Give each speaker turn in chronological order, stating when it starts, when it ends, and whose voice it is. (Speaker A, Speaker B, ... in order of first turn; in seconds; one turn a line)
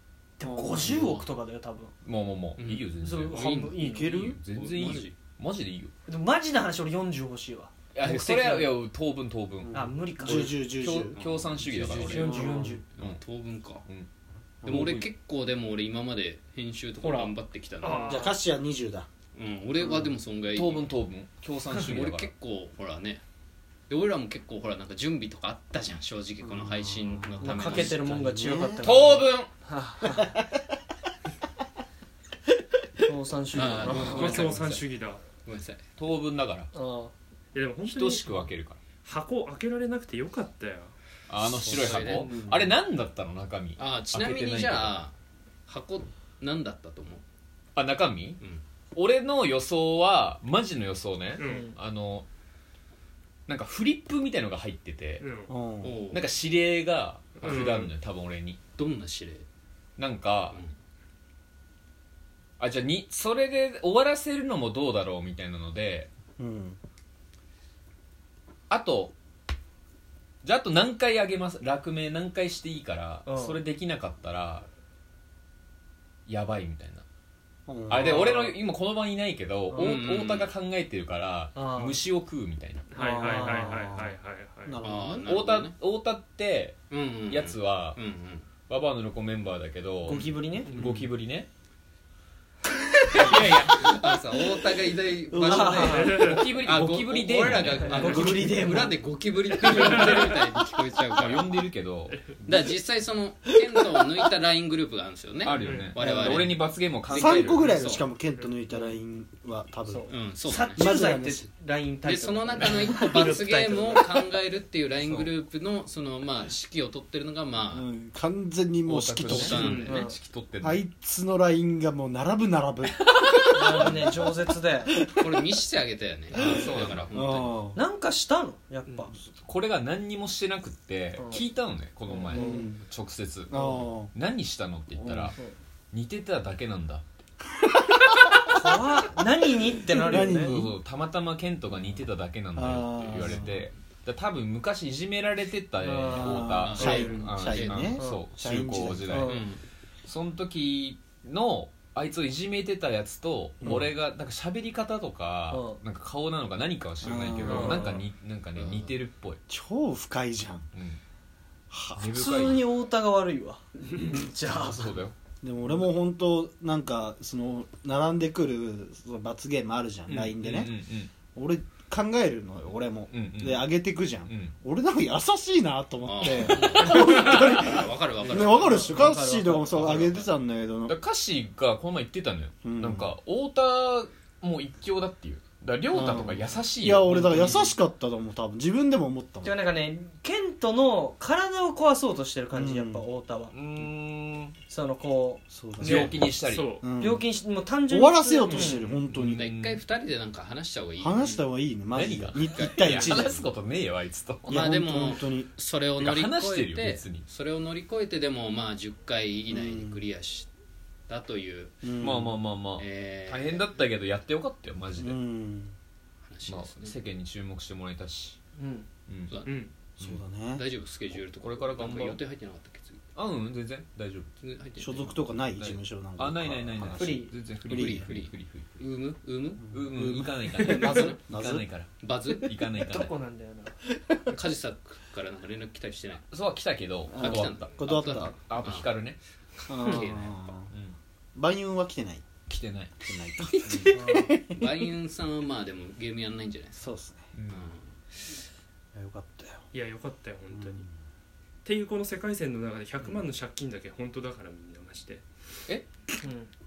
Speaker A: 0.4-1.9
Speaker B: 0.4-1.1
Speaker C: 0.8-1.2
Speaker D: 2.0-3.6
Speaker C: 2.6-5.2
Speaker A: 3.0-4.2
Speaker B: 3.8-4.4
Speaker D: 4.2-5.9
Speaker A: 6.1-8.8
Speaker D: 7.9-9.8
Speaker B: 9.6-11.1
Speaker A: 9.7-10.6
Speaker D: 10.7-12.4
Speaker C: 11.1-13.8
Speaker A: 12.0-12.8
Speaker B: 12.2-12.8
Speaker B: 14.6-14.9
Speaker D: 14.6-15.1
Speaker C: 14.7-18.2
Speaker A: 17.0-17.3
Speaker E: 17.8-18.3
Speaker B: 18.1-19.1
Speaker C: 19.3-20.9
Speaker B: 19.8-20.1
Speaker D: 20.5-22.3
Speaker C: 21.7-23.2
Speaker C: 23.9-28.3
Speaker B: 26.4-28.9
Speaker A: 27.4-30.3
Speaker D: 28.8-29.5
Speaker A: 33.0-34.6
Speaker C: 33.5-34.8
Speaker E: 34.0-35.2
Speaker C: 35.4-35.8
Speaker D: 36.0-36.7
Speaker A: 36.7-37.1
Speaker E: 37.5-38.3
Speaker D: 37.8-38.8
Speaker E: 39.0-40.9
Speaker D: 41.3-45.0
Speaker C: 41.4-42.3
Speaker B: 42.2-42.7
Speaker C: 43.8-45.1
Speaker C: 45.7-47.2
Speaker D: 47.8-48.4
Speaker D: 48.9-52.2
Speaker E: 51.4-51.7
Speaker A: 51.4-51.7
Speaker D: 53.5-55.2
Speaker E: 55.2-55.5
Speaker B: 55.5-56.0
Speaker C: 55.8-56.3
Speaker D: 56.1-58.6
Speaker E: 57.4-57.9
Speaker C: 58.8-59.5
Speaker D: 60.0-60.6
Speaker D: 62.6-66.1
Speaker B: 66.4-66.8
Speaker D: 68.7-69.1
Speaker D: 70.4-74.7
Speaker A: 73.2-73.6
Speaker D: 76.3-77.0
Speaker B: 77.7-78.3
Speaker D: 77.9-82.9
Speaker A: 78.2-78.5
Speaker A: 79.7-80.0
Speaker C: 79.7-80.5
Speaker A: 81.5-82.0
Speaker E: 82.9-84.8
Speaker A: 82.9-83.8
Speaker B: 83.2-84.1
Speaker B: 84.6-85.3
Speaker C: 84.8-85.8
Speaker D: 85.2-88.0
Speaker C: 86.9-88.5
Speaker D: 88.7-90.2
Speaker A: 90.0-90.7
Speaker E: 90.7-91.0
Speaker D: 90.8-91.5
Speaker C: 93.1-101.7
Speaker D: 93.2-93.6
Speaker B: 95.3-96.4
Speaker A: 95.4-96.3
Speaker E: 95.8-96.4
Speaker D: 96.2-98.2
Speaker A: 97.8-99.0
Speaker B: 97.9-98.9
Speaker E: 99.6-100.2
Speaker D: 101.1-102.3
Speaker C: 102.4-108.1
Speaker D: 105.4-107.6
Speaker E: 105.6-105.9
Speaker B: 106.0-106.5
Speaker B: 107.1-110.1
Speaker E: 107.7-108.5
Speaker A: 108.7-109.0
Speaker A: 109.9-114.2
Speaker C: 110.1-110.9
Speaker B: 110.8-111.5
Speaker C: 112.0-117.8
Speaker B: 117.7-119.6
Speaker D: 118.8-120.8
Speaker C: 119.2-120.0
Speaker E: 119.6-119.9
Speaker A: 119.7-120.2
Speaker B: 120.6-125.5
Speaker A: 123.5-125.0
Speaker C: 125.2-127.5
Speaker D: 126.3-127.1
Speaker B: 126.3-127.8
Speaker A: 127.7-129.1
Speaker D: 129.4-135.4
Speaker A: 131.2-131.4
Speaker B: 132.2-132.8
Speaker A: 132.3-132.7
Speaker B: 133.5-134.1
Speaker B: 134.9-135.3
Speaker D: 135.9-137.1
Speaker A: 138.5-140.6
Speaker B: 140.0-140.8
Speaker D: 140.2-149.4
Speaker B: 142.5-143.6
Speaker C: 143.0-143.7
Speaker A: 145.8-147.0
Speaker B: 146.2-149.3
Speaker C: 146.6-148.0
Speaker A: 148.0-148.2
Speaker A: 149.1-149.4
Speaker C: 149.2-149.6
Speaker D: 150.0-159.4
Speaker B: 153.6-153.9
Speaker A: 155.5-155.8
Speaker B: 157.0-158.0
Speaker A: 157.5-157.9
Speaker C: 158.5-159.0
Speaker B: 159.5-160.7
Speaker D: 160.7-161.0
Speaker B: 161.7-162.2
Speaker D: 162.0-162.7
Speaker A: 162.1-165.0
Speaker D: 164.4-165.1
Speaker B: 165.4-170.7
Speaker D: 170.1-171.1
Speaker B: 171.3-180.9
Speaker D: 173.1-173.8
Speaker D: 174.3-174.5
Speaker C: 176.0-178.9
Speaker D: 176.2-177.9
Speaker A: 178.3-180.0
Speaker C: 179.7-180.3
Speaker D: 180.9-187.8
Speaker B: 182.6-183.1
Speaker B: 185.9-189.6
Speaker A: 189.4-193.5
Speaker B: 192.5-193.1
Speaker D: 193.5-194.6
Speaker A: 194.7-196.2
Speaker B: 195.5-196.3
Speaker D: 195.8-196.8
Speaker E: 196.5-196.9
Speaker B: 196.8-197.2
Speaker A: 197.0-198.9
Speaker B: 197.9-199.4
Speaker D: 199.1-199.8
Speaker C: 199.2-201.4
Speaker B: 201.0-203.4
Speaker D: 201.9-204.6
Speaker C: 202.3-203.5
Speaker B: 204.5-205.5
Speaker C: 204.5-210.5
Speaker D: 206.0-207.2
Speaker B: 209.5-210.0
Speaker C: 211.1-211.8
Speaker B: 211.8-212.4
Speaker D: 212.0-215.2
Speaker C: 212.8-213.8
Speaker B: 214.9-215.7
Speaker C: 216.2-217.0
Speaker D: 216.4-218.4
Speaker A: 218.6-218.9
Speaker D: 219.1-219.4
Speaker C: 219.3-223.0
Speaker E: 219.4-219.7
Speaker B: 220.0-220.7
Speaker D: 221.4-222.2
Speaker D: 223.1-224.3
Speaker C: 224.4-225.2
Speaker B: 224.8-228.1
Speaker D: 225.5-228.8
Speaker A: 226.9-227.3
Speaker C: 227.7-229.7
Speaker B: 229.6-231.6
Speaker D: 229.7-231.9
Speaker C: 232.0-232.5
Speaker D: 232.4-233.1
Speaker A: 232.8-233.8
Speaker C: 234.2-236.2
Speaker D: 236.3-237.7
Speaker B: 237.1-238.3
Speaker C: 237.2-240.5
Speaker D: 238.3-239.2
Speaker B: 239.7-240.7
Speaker D: 240.7-240.9
Speaker B: 241.3-242.3
Speaker D: 242.5-242.9
Speaker B: 243.0-244.8
Speaker C: 243.6-244.0
Speaker A: 243.9-244.3
Speaker C: 244.5-246.9
Speaker B: 246.8-247.2
Speaker D: 247.3-247.7
Speaker C: 247.5-247.9
Speaker B: 248.9-249.7
Speaker E: 249.7-250.8
Speaker B: 250.5-250.9
Speaker E: 251.6-255.2
Speaker A: 256.2-256.5